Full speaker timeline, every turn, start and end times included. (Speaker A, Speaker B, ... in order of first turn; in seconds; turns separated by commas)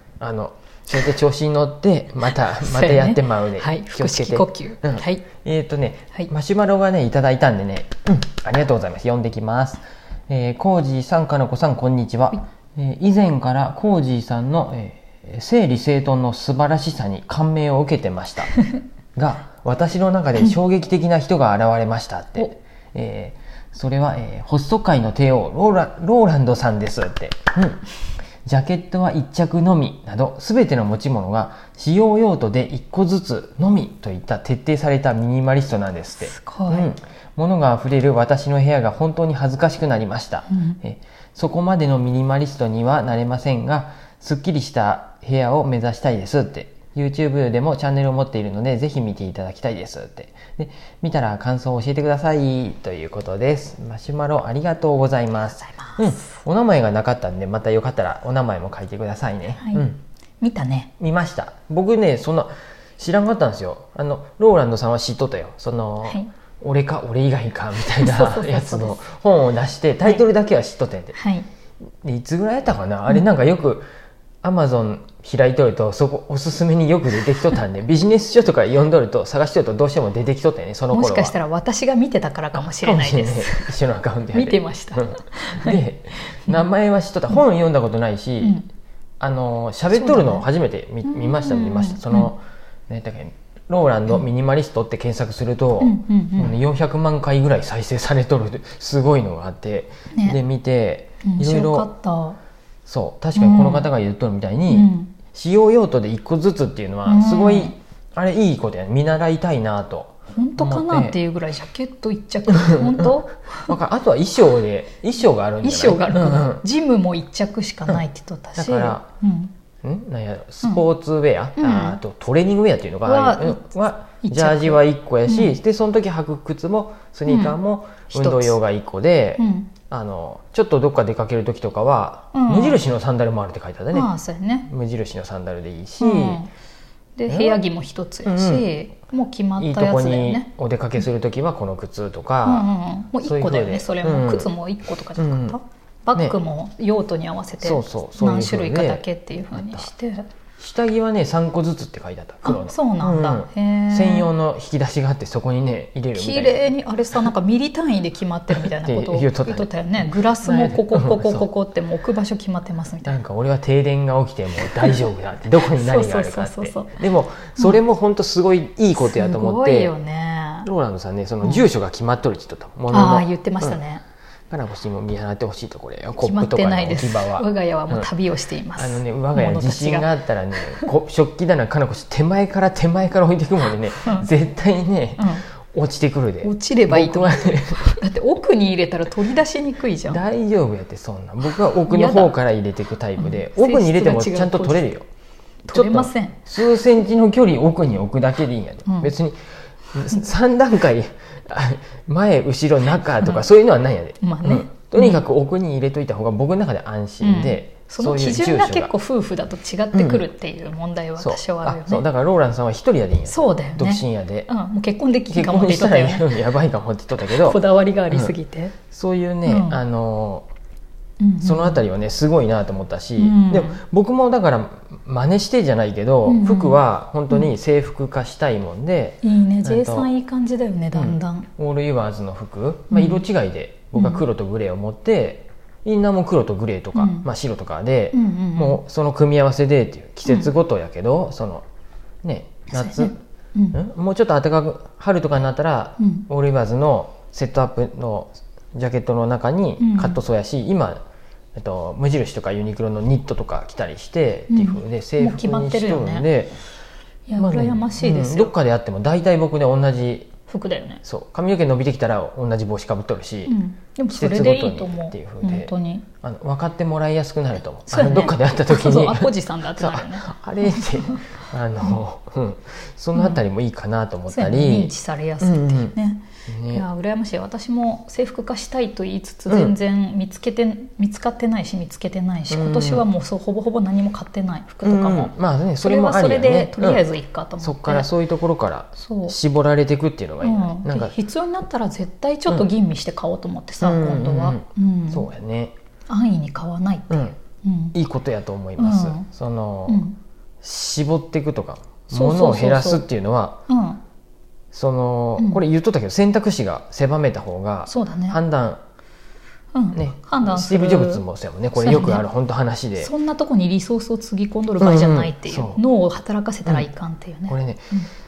Speaker A: 0.2-18.6, Speaker B: 2.4-5.2, Speaker A: 19.1-27.8, Speaker A: 28.4-60.0, Speaker B: 36.2-36.9, Speaker B: 40.5-40.8, Speaker B: 59.5-59.9, Speaker B: 60.4-60.9, Speaker A: 61.0-71.2, Speaker B: 68.0-69.0, Speaker B: 71.1-71.5, Speaker A: 72.0-73.8, Speaker A: 74.4-81.3, Speaker B: 80.9-83.8, Speaker A: 82.5-88.6, Speaker B: 84.3-86.6, Speaker B: 88.4-88.7, Speaker A: 89.2-101.9, Speaker B: 89.9-90.4, Speaker B: 91.0-92.3, Speaker B: 95.8-96.5, Speaker B: 100.1-100.4, Speaker B: 101.2-102.4, Speaker A: 102.8-111.2, Speaker B: 103.3-103.9, Speaker B: 104.7-105.1, Speaker B: 107.0-107.8, Speaker B: 110.3-113.8, Speaker A: 112.5-113.1, Speaker A: 113.7-116.6, Speaker B: 115.6-119.5, Speaker A: 118.5-119.1, Speaker A: 119.8-134.1, Speaker B: 121.6-122.0, Speaker B: 123.0-123.7, Speaker B: 124.2-125.6, Speaker B: 127.3-127.6, Speaker B: 128.1-128.6, Speaker B: 129.4-129.7, Speaker B: 132.3-132.8, Speaker B: 133.9-134.7, Speaker A: 134.7-136.4, Speaker B: 136.0-136.5, Speaker B: 137.2-140.5, Speaker A: 137.3-137.6, Speaker A: 138.2-138.7, Speaker A: 139.6-142.7, Speaker B: 142.4-150.3, Speaker A: 143.2-144.5, Speaker A: 145.2-145.6, Speaker A: 147.6-149.9, Speaker A: 150.6-156.7, Speaker B: 152.4-154.3, Speaker B: 156.1-163.2, Speaker A: 158.6-161.4, Speaker A: 163.0-169.9, Speaker B: 165.7-167.0, Speaker B: 169.0-170.7, Speaker A: 170.6-173.8, Speaker B: 172.9-174.0, Speaker A: 174.5-178.1, Speaker B: 176.2-180.9, Speaker A: 178.8-188.0, Speaker B: 185.2-185.4, Speaker B: 186.4-190.2, Speaker A: 190.0-195.1, Speaker B: 191.7-192.3, Speaker B: 193.2-194.9, Speaker B: 195.7-196.4, Speaker A: 195.7-199.4, Speaker B: 198.9-199.1, Speaker A: 199.9-208.9, Speaker B: 204.2-205.2, Speaker B: 207.2-212.0, Speaker A: 209.9-210.2, Speaker A: 211.2-214.5, Speaker B: 213.2-216.3, Speaker A: 215.3-218.3, Speaker B: 217.3-218.7, Speaker A: 218.9-220.5, Speaker B: 219.4-219.8, Speaker B: 221.2-221.8, Speaker A: 221.4-230.1, Speaker B: 223.2-223.8, Speaker B: 226.2-227.5, Speaker B: 229.2-231.5, Speaker A: 230.9-241.6, Speaker B: 232.9-233.2, Speaker B: 233.9-234.2, Speaker B: 236.9-237.3, Speaker B: 238.1-238.8, Speaker B: 240.2-240.5, Speaker A: 242.2-243.2, Speaker B: 242.7-243.8, Speaker A: 243.7-251.0, Speaker B: 246.0-246.2, Speaker B: 249.8-250.2, Speaker A: 251.6-256.5, Speaker B: 254.5-256.3, Speaker B: 257.3-258.5, Speaker A: 257.4-260.3, Speaker B: 260.5-261.0, Speaker A: 261.0-263.5, Speaker B: 263.5-266.1, Speaker A: 264.1-265.7, Speaker A: 266.2-275.9, Speaker B: 267.9-271.2, Speaker B: 274.3-288.1, Speaker A: 276.5-276.8, Speaker A: 279.5-279.7, Speaker A: 282.5-283.0, Speaker A: 284.8-287.0, Speaker A: 287.6-291.1, Speaker B: 289.0-289.4, Speaker B: 290.4-295.3, Speaker A: 293.8-295.7, Speaker B: 296.1-297.9, Speaker A: 297.1-297.4, Speaker A: 297.9-300.1, Speaker B: 298.8-299.3, Speaker B: 299.9-300.2, Speaker A: 300.6-303.6, Speaker B: 302.1-303.0, Speaker B: 303.7-304.0, Speaker A: 304.7-308.8, Speaker B: 307.9-308.4, Speaker B: 309.7-311.2, Speaker A: 309.9-313.1, Speaker B: 311.7-312.2, Speaker B: 313.0-318.1, Speaker A: 314.8-315.8, Speaker A: 317.5-317.9